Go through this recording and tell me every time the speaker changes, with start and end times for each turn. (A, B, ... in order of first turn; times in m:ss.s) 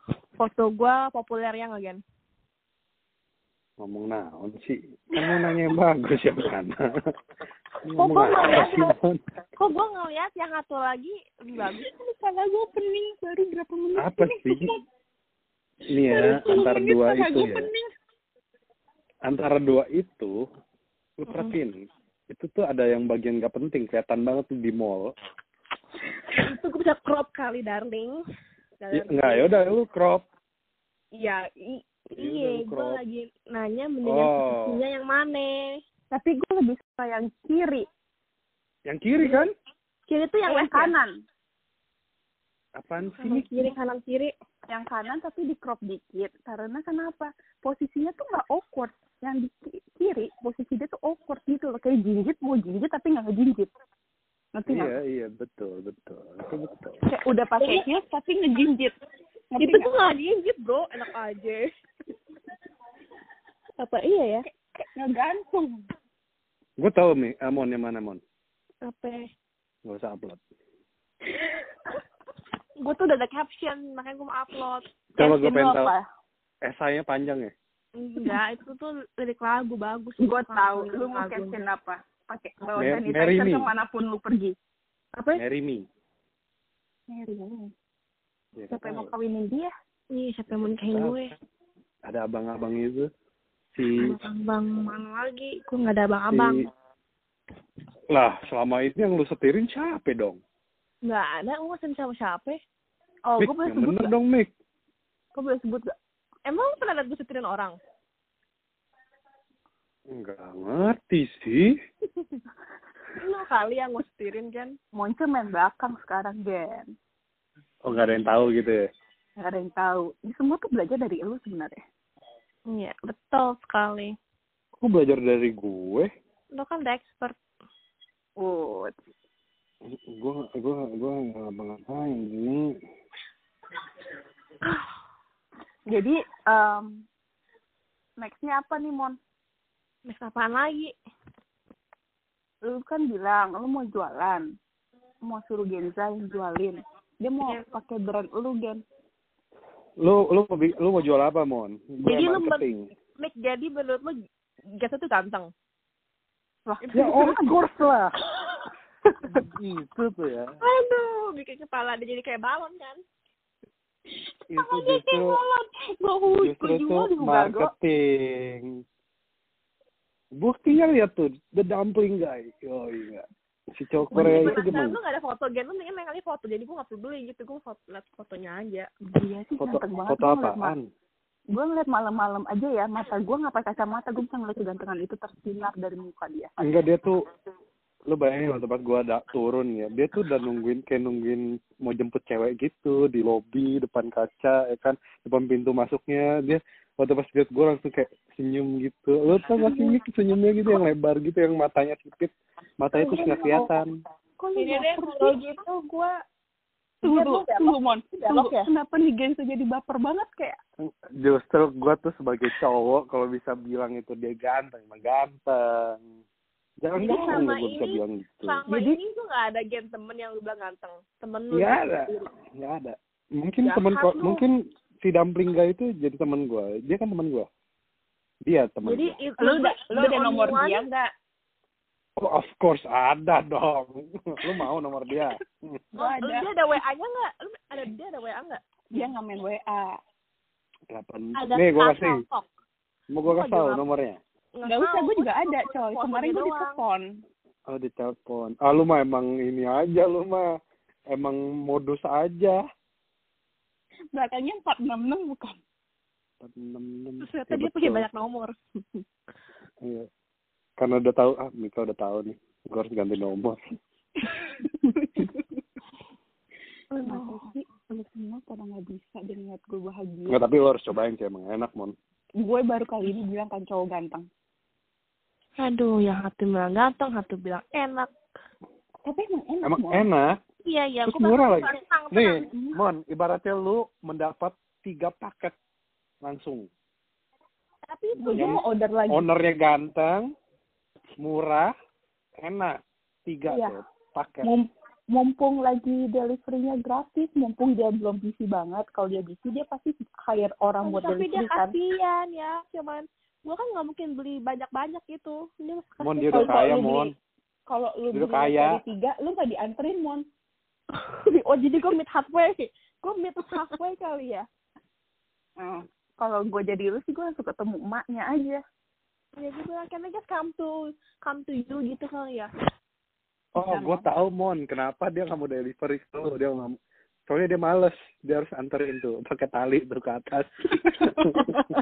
0:00.4-0:02.0 A
0:03.8-0:06.8 B
0:07.8-0:09.2 B
0:08.0-0:08.9 A
0:09.6-0:11.9 A
0:11.8-0:14.8 C
0:14.0-0:14.7 B
0:15.9-0:17.7 B
0:16.0-0:17.9 C
0:19.2-0:20.3 B
0:21.2-0:21.8 B
0:22.3-0:25.1 B
0:26.4-0:28.2 A
0:28.8-0:29.5 A
0:28.9-0:30.2 B
0:31.1-0:35.8 A
0:32.2-0:33.0 B
0:34.0-0:34.8 B
0:36.1-0:37.9 C
0:38.9-0:39.5 B
0:40.1-0:41.0 A
0:40.4-0:41.1 C
0:42.8-0:43.4 B
0:43.2-0:44.3 A
0:44.7-0:53.7 C
0:54.6-0:54.9 C
0:54.7-0:57.0 B
0:57.1-0:58.9 C
0:59.5-1:00.0 C
0:59.6-1:01.7 A
1:03.8-1:04.5 A
1:04.7-1:05.9 C
1:06.8-1:08.2 B
1:08.8-1:09.3 A
1:09.8-1:10.4 B
1:12.8-1:14.8 A
1:15.2-1:15.9 B
1:15.2-1:16.0 C
1:16.6-1:17.5 B
1:18.0-1:21.6 A
1:20.2-1:24.6 C
1:22.8-1:23.7 B
1:25.2-1:25.4 A
1:25.4-1:25.8 B
1:27.1-1:27.7 C
1:28.6-1:29.1 B
1:28.7-1:29.7 C
1:30.1-1:31.3 A
1:30.9-1:31.3 B
1:32.1-1:33.1 B
1:33.8-1:34.1 B
1:34.0-1:36.7 A
1:36.3-1:36.7 B
1:38.1-1:40.4 B
1:41.0-1:42.6 A
1:43.3-1:44.1 C
1:43.4-1:44.5 B
1:45.4-1:45.9 C
1:46.5-1:47.8 A
1:50.1-1:51.7 B
1:53.2-1:54.8 A
1:55.0-1:56.9 C
1:57.8-1:58.8 B
1:59.4-2:01.8 C
2:02.7-2:04.2 A
2:04.8-2:06.1 B
2:06.5-2:07.4 A
2:08.4-2:08.9 C
2:09.9-2:12.7 B
2:15.9-2:17.0 C
2:18.2-2:19.2 C
2:20.1-2:21.0 A
2:22.6-2:24.5 C
2:25.2-2:28.8 C
2:30.0-2:32.9 B
2:32.0-2:32.7 A
2:33.2-2:34.2 A
2:34.7-2:35.5 A
2:36.7-2:37.7 C
2:36.9-2:38.1 B
2:39.3-2:40.6 B
2:40.6-2:43.0 A
2:44.5-2:45.4 B
2:44.5-2:47.7 C
2:46.3-2:48.8 B
2:50.4-2:55.0 B
2:54.1-2:54.8 C
2:54.1-2:58.9 A
2:59.1-3:00.8 C
2:59.6-3:00.9 B
3:01.5-3:06.6 C
3:06.6-3:07.2 B
3:08.1-3:23.9 B
3:19.6-3:20.0 C
3:22.9-3:23.8 A
3:24.4-3:26.0 C
3:24.6-3:26.1 A
3:27.0-3:28.7 A
3:27.0-3:30.6 C
3:31.2-3:36.0 B
3:36.8-3:38.6 B
3:37.0-3:42.3 A
3:37.0-3:37.4 C
3:38.7-3:39.0 C
3:41.5-3:47.5 B
3:43.6-3:44.4 A
3:48.5-3:49.2 B
3:48.8-3:50.9 A
3:49.4-3:51.1 C
3:52.2-3:55.8 B
3:56.0-3:56.5 C
3:56.0-3:58.6 A
3:58.9-4:00.0 C
4:00.9-4:02.2 B
4:01.4-4:02.4 A
4:03.1-4:04.2 B
4:03.3-4:03.8 A
4:04.6-4:06.8 A
4:04.7-4:07.1 C
4:07.7-4:10.5 B
4:11.1-4:12.6 B
4:14.1-4:15.6 C
4:16.4-4:18.1 B
4:17.2-4:18.5 A
4:19.8-4:20.1 B
4:20.8-4:23.6 B
4:24.6-4:25.4 C
4:26.9-4:27.4 A
4:27.0-4:30.4 C
4:30.3-4:32.0 B
4:32.4-4:34.3 C
4:35.6-4:38.1 A
4:39.0-4:40.1 C
4:39.6-4:40.3 B
4:40.6-4:42.5 A
4:41.0-4:45.6 B
4:42.5-4:42.8 C
4:46.2-4:46.7 B
4:47.9-4:48.6 A
4:48.2-4:49.3 C
4:48.3-4:50.3 B
4:51.2-4:51.7 B
4:52.4-4:54.5 B
4:53.5-4:53.8 C
4:54.4-5:01.7 C
5:00.8-5:07.1 A
5:06.0-5:07.1 B
5:06.3-5:07.1 C
5:07.7-5:10.2 C
5:08.1-5:08.8 B
5:11.3-5:14.4 A
5:15.6-5:18.6 C
5:19.4-5:22.5 A
5:23.6-5:26.8 B
5:23.6-5:24.1 C
5:27.3-5:31.5 B